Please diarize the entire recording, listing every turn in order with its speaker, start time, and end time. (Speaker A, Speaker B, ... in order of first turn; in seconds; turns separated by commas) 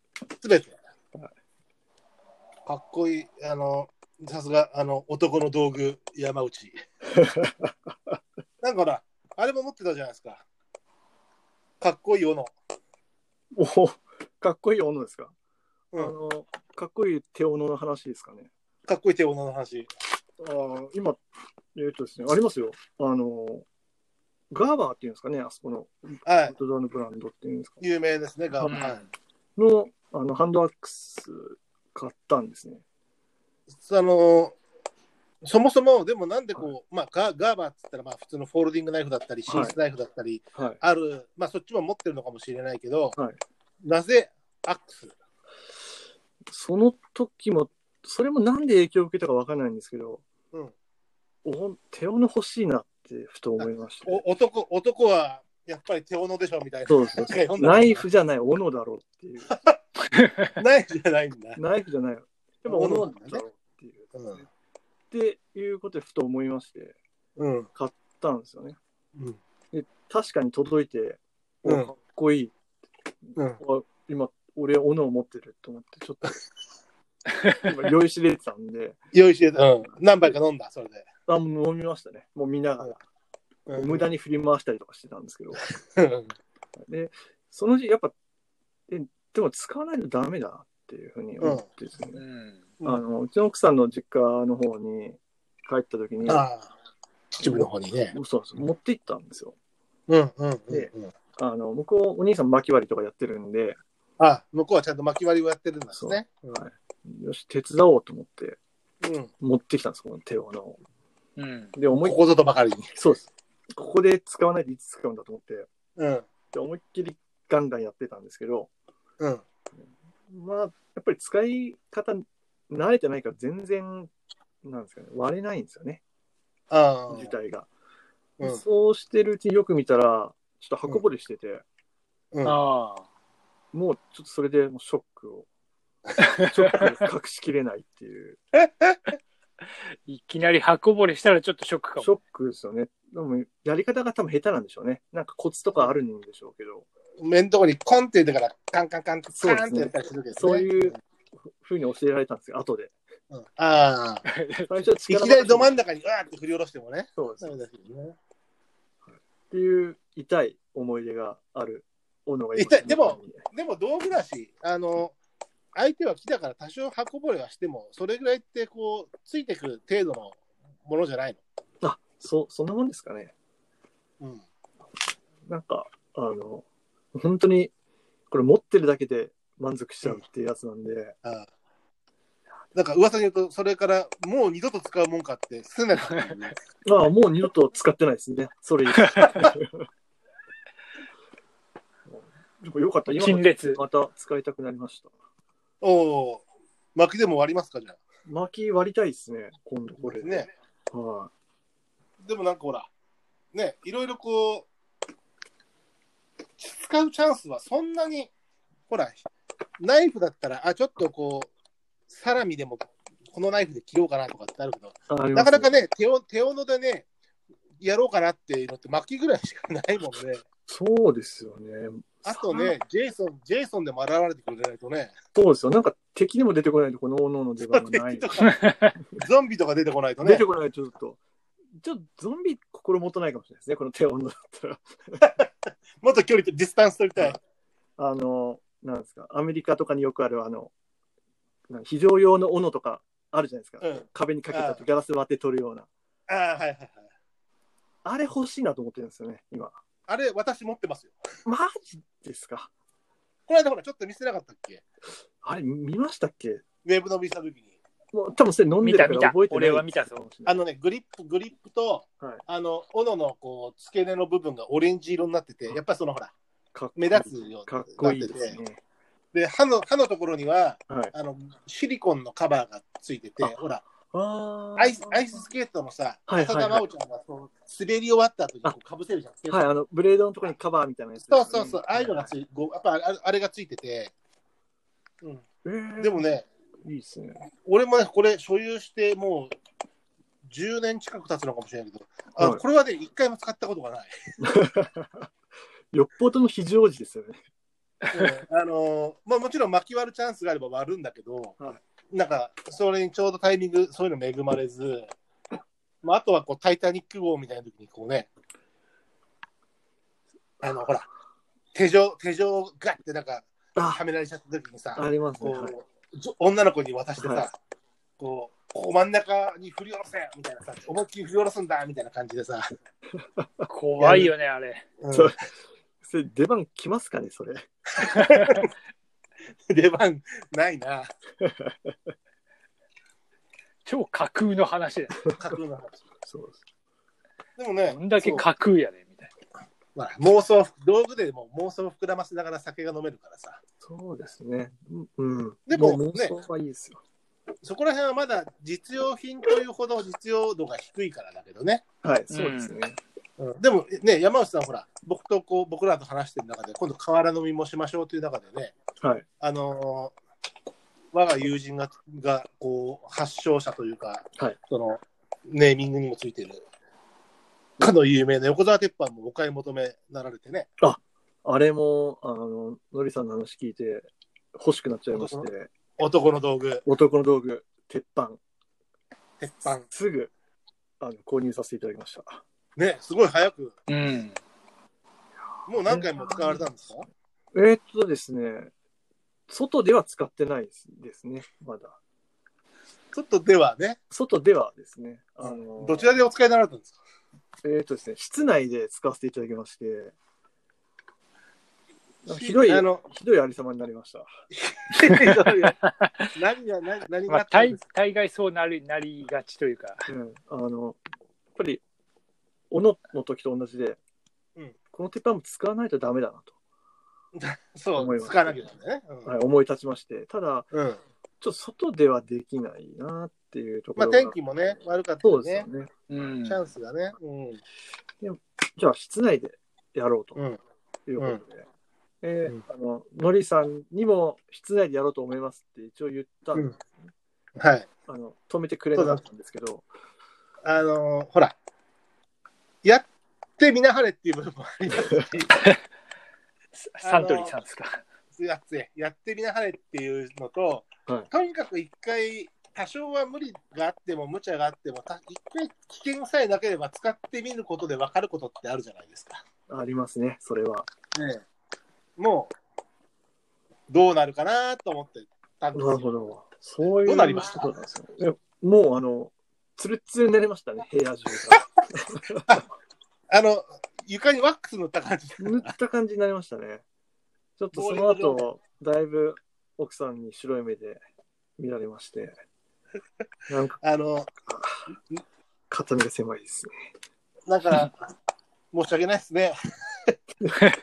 Speaker A: 0.4-0.8, Speaker A: 2.6-6.8, Speaker B: 7.1-8.2, Speaker A: 8.6-10.4, Speaker A: 11.8-12.5, Speaker B: 13.5-15.3, Speaker B: 16.0-18.5, Speaker A: 18.9-19.9, Speaker B: 20.4-21.2, Speaker B: 21.7-23.6, Speaker B: 24.5-27.8, Speaker A: 26.2-26.6, Speaker A: 27.8-29.0, Speaker C: 28.6-29.1, Speaker B: 29.6-32.8, Speaker A: 33.8-34.5, Speaker A: 35.4-43.1, Speaker B: 39.5-39.8, Speaker B: 40.5-40.8, Speaker A: 43.8-45.1, Speaker B: 46.5-50.2, Speaker B: 51.4-54.2, Speaker A: 53.6-58.0, Speaker B: 56.9-59.5, Speaker A: 59.5-59.8, Speaker C: 60.1-60.5, Speaker A: 60.5-61.6, Speaker B: 61.5-64.5, Speaker A: 62.6-63.4, Speaker A: 64.1-64.4, Speaker B: 65.1-67.0, Speaker A: 67.4-67.7, Speaker B: 67.7-68.8, Speaker B: 69.7-72.5, Speaker A: 71.6-71.9, Speaker B: 73.2-76.4, Speaker B: 77.5-79.0, Speaker A: 79.1-81.1, Speaker B: 79.8-80.4, Speaker B: 81.3-83.0, Speaker A: 83.7-84.1, Speaker B: 83.7-85.6, Speaker A: 85.9-86.3, Speaker B: 86.8-88.1, Speaker B: 88.9-92.2, Speaker C: 92.1-92.6, Speaker B: 92.8-96.5, Speaker A: 96.2-96.7, Speaker A: 97.4-98.1, Speaker B: 97.4-99.5, Speaker A: 100.1-101.1, Speaker B: 100.7-103.8, Speaker A: 104.2-106.6, Speaker B: 105.9-108.6, Speaker A: 109.0-109.3, Speaker B: 109.4-110.8, Speaker C: 111.4-111.7, Speaker B: 111.8-112.2, Speaker A: 112.0-113.0, Speaker B: 112.9-115.7, Speaker A: 116.0-116.2, Speaker B: 116.5-118.7, Speaker B: 119.8-124.1, Speaker B: 124.6-126.0, Speaker A: 126.7-127.3, Speaker B: 127.1-127.7, Speaker B: 128.4-131.6, Speaker C: 132.4-133.1, Speaker B: 133.7-135.5, Speaker C: 136.2-136.9, Speaker B: 136.4-138.4, Speaker A: 138.6-139.1, Speaker C: 140.1-142.1, Speaker B: 142.0-146.9, Speaker A: 147.2-151.0, Speaker B: 149.3-152.9, Speaker A: 153.3-154.2, Speaker C: 154.2-154.8, Speaker B: 154.7-155.8, Speaker A: 155.1-158.2, Speaker B: 157.2-157.5, Speaker B: 159.1-163.4, Speaker A: 162.6-165.2, Speaker A: 165.7-171.4, Speaker B: 171.8-173.3, Speaker A: 174.2-174.4, Speaker B: 175.5-177.7, Speaker B: 178.3-181.2, Speaker A: 182.7-186.6, Speaker B: 186.8-189.9, Speaker C: 188.9-189.4, Speaker B: 192.1-195.1, Speaker C: 193.1-193.8, Speaker A: 195.8-196.4, Speaker A: 196.9-198.0, Speaker B: 198.2-201.3, Speaker A: 200.0-200.5, Speaker A: 202.2-202.9, Speaker A: 203.5-204.7, Speaker A: 206.6-208.3, Speaker A: 208.9-209.2, Speaker A: 209.8-211.5, Speaker A: 212.1-217.1, Speaker B: 215.1-215.7, Speaker A: 217.8-220.4, Speaker B: 220.7-222.7, Speaker A: 222.2-225.1, Speaker B: 225.3-228.5, Speaker A: 227.7-228.6, Speaker C: 228.5-228.9, Speaker A: 229.2-230.4, Speaker B: 230.2-231.2, Speaker B: 231.8-235.4, Speaker A: 236.0-237.4, Speaker B: 238.0-240.7, Speaker B: 241.7-245.9, Speaker A: 243.8-244.8, Speaker A: 246.3-247.1, Speaker B: 248.0-249.8, Speaker A: 250.1-251.2, Speaker B: 251.4-252.7, Speaker A: 253.5-254.8, Speaker B: 255.4-256.6, Speaker A: 256.8-257.7, Speaker B: 258.1-260.6, Speaker C: 258.8-260.1, Speaker A: 260.4-266.3, Speaker B: 266.7-268.8, Speaker A: 266.9-268.6, Speaker A: 269.3-273.8, Speaker B: 270.9-271.1, Speaker B: 273.4-275.4, Speaker A: 274.8-279.6, Speaker B: 276.3-276.9, Speaker B: 279.5-282.3, Speaker A: 281.2-284.1, Speaker B: 285.6-286.3, Speaker A: 286.0-286.5, Speaker B: 286.8-287.5, Speaker A: 287.6-289.5, Speaker A: 290.5-294.1, Speaker B: 294.4-295.3, Speaker B: 295.9-297.4, Speaker A: 298.1-301.6, Speaker A: 302.1-305.1, Speaker A: 306.0-308.3, Speaker A: 310.6-311.1, Speaker A: 311.7-317.5, Speaker B: 313.8-314.0, Speaker B: 314.9-315.7, Speaker B: 317.2-317.5, Speaker A: 318.2-322.6, Speaker B: 323.4-323.7, Speaker C: 323.7-324.8, Speaker A: 324.0-324.3, Speaker A: 325.0-325.3, Speaker B: 325.1-325.4, Speaker B: 326.0-327.6, Speaker A: 328.0-328.6, Speaker C: 328.1-328.6, Speaker A: 329.7-331.1, Speaker B: 331.4-331.9, Speaker C: 333.9-335.3, Speaker A: 335.3-336.0, Speaker B: 336.2-336.6, Speaker A: 337.6-338.4, Speaker C: 337.9-339.3, Speaker A: 339.9-343.6, Speaker B: 343.8-347.0, Speaker A: 345.7-346.3, Speaker A: 347.6-351.8, Speaker B: 352.0-353.0, Speaker C: 352.3-352.7, Speaker A: 353.4-358.7, Speaker B: 359.0-359.2, Speaker A: 359.4-360.1, Speaker A: 361.1-366.6, Speaker A: 367.8-370.7, Speaker B: 370.8-375.7, Speaker A: 375.1-376.8, Speaker B: 376.8-378.4, Speaker A: 379.4-379.9, Speaker B: 379.9-380.3, Speaker B: 381.0-382.4, Speaker A: 382.8-383.7, Speaker C: 383.9-384.4, Speaker B: 385.4-386.7, Speaker A: 385.7-387.1, Speaker B: 387.5-388.7, Speaker B: 389.5-392.0, Speaker A: 393.1-394.0, Speaker B: 394.1-396.1, Speaker A: 395.4-397.0, Speaker B: 397.6-400.1, Speaker B: 402.2-404.3, Speaker A: 402.3-403.0, Speaker A: 404.5-405.8, Speaker C: 404.9-406.3, Speaker A: 406.3-407.8, Speaker C: 407.3-410.0, Speaker B: 410.1-411.0, Speaker B: 411.6-411.8, Speaker B: 412.7-414.0, Speaker B: 414.9-416.5, Speaker A: 417.3-419.3, Speaker B: 417.9-418.6, Speaker B: 419.2-420.7, Speaker A: 420.7-421.0, Speaker B: 421.4-424.4, Speaker A: 423.9-425.7, Speaker B: 425.2-425.9, Speaker C: 426.1-426.6, Speaker A: 426.4-427.6, Speaker B: 428.2-430.4, Speaker B: 431.1-431.7, Speaker B: 432.2-437.1, Speaker A: 437.6-437.9, Speaker B: 438.1-439.9, Speaker A: 438.9-439.2, Speaker A: 440.6-441.5, Speaker A: 443.6-445.5, Speaker C: 445.5-445.8, Speaker C: 446.8-448.0, Speaker A: 447.0-447.6, Speaker A: 448.3-459.4, Speaker B: 459.7-460.9, Speaker A: 461.1-461.4, Speaker A: 462.2-462.5, Speaker A: 463.9-466.0, Speaker B: 465.7-472.6, Speaker A: 467.0-467.7, Speaker A: 473.3-475.7, Speaker B: 475.4-476.8, Speaker B: 477.6-481.0, Speaker A: 477.7-478.4, Speaker B: 481.6-482.4, Speaker B: 483.5-483.8, Speaker A: 483.8-484.3, Speaker B: 484.4-484.9, Speaker B: 485.7-486.7, Speaker A: 487.5-488.0, Speaker A: 488.7-489.6